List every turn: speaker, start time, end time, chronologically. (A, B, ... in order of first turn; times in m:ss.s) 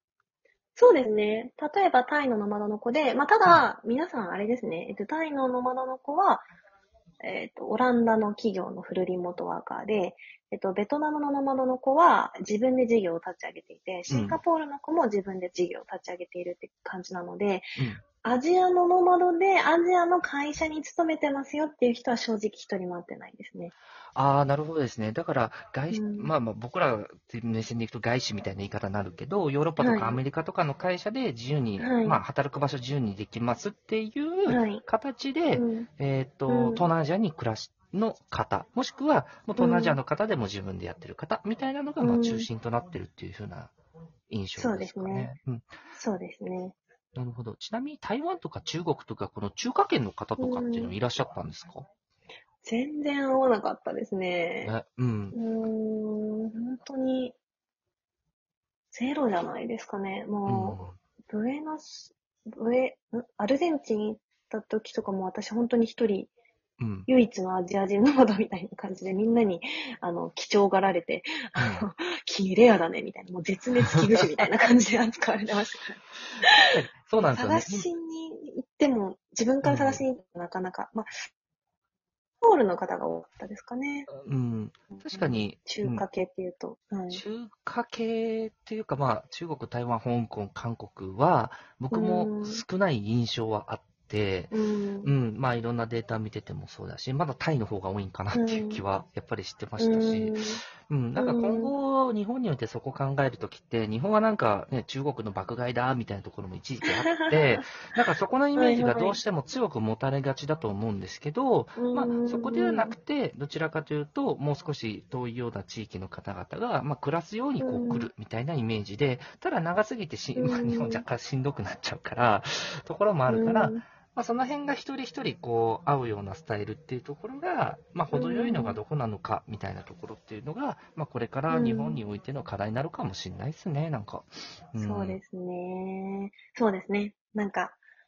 0:00.8-0:06.5 A
0:07.2-0:23.7 A
0:14.1-0:14.4 B
0:17.8-0:18.0 B
0:24.2-0:43.7 B
0:25.9-0:26.3 A
0:29.8-0:30.2 A
0:31.8-0:32.2 A
0:34.5-0:34.8 A
0:35.5-0:35.9 A
0:36.5-0:36.8 A
0:39.6-0:40.0 A
0:42.0-0:42.5 A
0:44.3-0:45.7 B
0:44.6-0:45.3 A
0:46.0-0:46.8 A
0:47.2-0:51.8 B
0:50.4-0:51.0 A
0:52.6-0:54.7 A
0:54.6-0:55.4 B
0:55.3-0:57.4 A
0:58.9-1:06.3 A
1:00.5-1:01.0 B
1:06.8-1:07.1 B
1:07.1-1:16.6 A
1:11.6-1:11.9 B
1:16.6-1:17.9 B
1:17.3-1:21.1 A
1:19.6-1:20.0 B
1:22.4-1:24.1 A
1:24.1-1:26.0 B
1:25.0-1:27.2 A
1:27.1-2:15.2 B
1:31.9-1:32.6 A
1:34.5-1:35.1 A
1:38.3-1:38.8 A
1:39.8-1:40.6 A
1:41.2-1:41.7 A
1:48.6-1:49.2 A
1:51.8-1:53.0 A
1:57.6-1:58.1 A
2:00.4-2:01.0 A
2:03.3-2:03.8 A
2:08.1-2:08.8 A
2:11.5-2:12.0 A
2:14.8-2:17.8 A